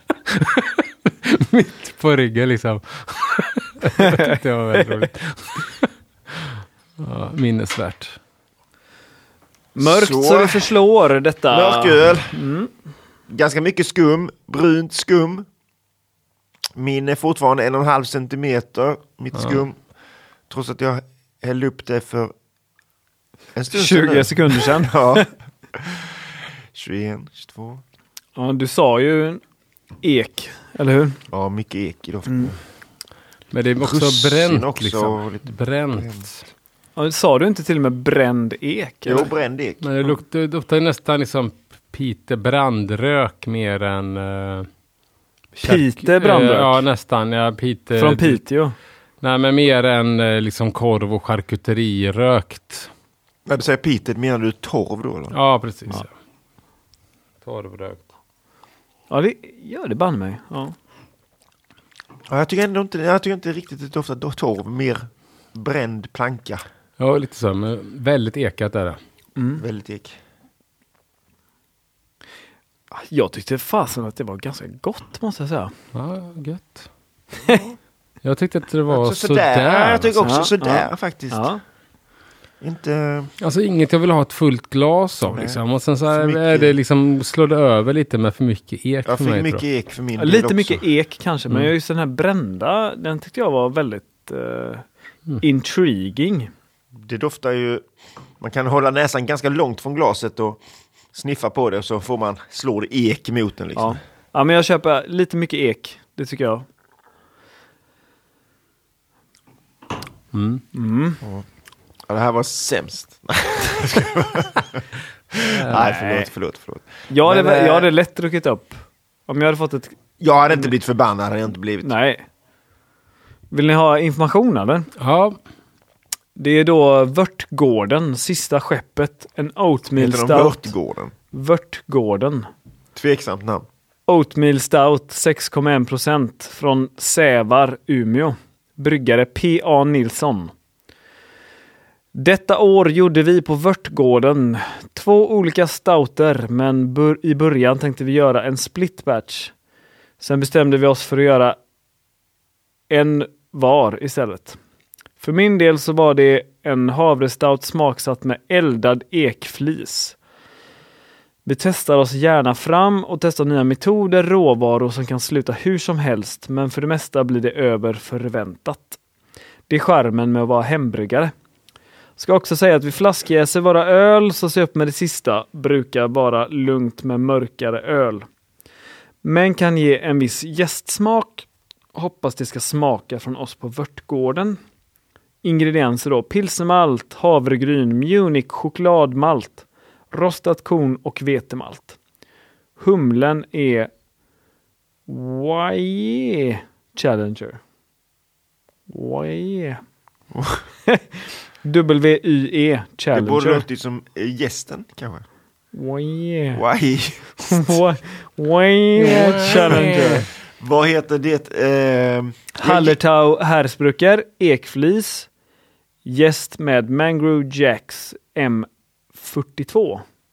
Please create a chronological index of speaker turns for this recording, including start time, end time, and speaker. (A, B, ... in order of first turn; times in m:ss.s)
0:00.3-0:05.9 A
0:06.4-0:08.2 A
0:09.7-0:12.7 B
0:09.8-0:10.7 C
0:11.5-0:12.4 C
0:13.3-0:15.4 C
0:16.8-0:19.8 C
0:19.4-0:19.6 A
0:20.5-0:22.3 C
0:23.5-0:26.0 C
0:23.7-0:25.3 B
0:26.7-0:27.8 C
0:28.4-0:29.4 B
0:30.0-0:31.2 B
0:31.3-0:32.6 C
0:33.5-0:36.4 A
0:33.8-0:36.3 C
0:37.0-0:39.3 B
0:39.0-0:39.8 C
0:39.8-0:44.7 A
0:45.6-0:46.8 B
0:45.6-0:48.4 A
0:47.9-0:48.8 B
0:49.2-0:52.9 A
0:53.4-0:56.0 C
0:55.3-0:56.1 A
0:57.4-0:58.0 A
0:59.1-1:00.7 B
1:02.3-1:06.6 C
1:07.0-1:09.0 A
1:09.4-1:09.6 B
1:09.6-1:10.2 C
1:12.9-1:15.7 B
1:15.9-1:16.9 A
1:18.2-1:20.3 A
1:18.9-1:21.5 C
1:20.2-1:21.6 B
1:22.6-1:23.3 C
1:23.4-1:29.6 A
1:25.2-1:26.8 C
1:29.0-1:30.8 C
1:30.2-1:34.8 B
1:35.4-1:36.5 B
1:37.0-1:37.8 C
1:38.4-1:40.6 C
1:41.1-1:44.0 C
1:43.8-1:46.6 B
1:50.3-1:50.6 A
1:50.7-1:51.2 B
1:52.1-1:54.8 C
1:55.4-1:57.9 C
1:55.5-1:55.8 A
1:55.7-1:56.3 B
1:57.1-2:00.0 B
2:00.2-2:01.9 C
2:01.8-2:02.2 B
2:03.5-2:04.9 B
2:05.0-2:05.4 A
2:06.4-2:10.7 B
2:10.0-2:11.1 C
2:11.3-2:12.5 B
2:12.9-2:13.6 C
2:14.1-2:20.5 B
2:22.1-2:29.5 B
2:30.2-2:31.6 B
2:32.9-2:34.6 B
2:35.2-2:40.2 B
2:41.4-2:49.0 B
2:49.7-2:51.3 B
2:52.2-2:58.3 B
2:59.2-3:04.6 B
3:05.4-3:12.0 B
3:12.8-3:13.9 B
3:15.1-3:17.6 B
3:18.9-3:19.8 B
3:20.3-3:20.6 C
3:21.6-3:23.6 B
3:23.1-3:25.2 C
3:25.7-3:26.6 B
3:26.5-3:27.8 C
3:27.5-3:30.2 B
3:29.0-3:30.2 A
3:29.7-3:33.0 C
3:32.6-3:35.3 B
3:36.0-3:40.0 B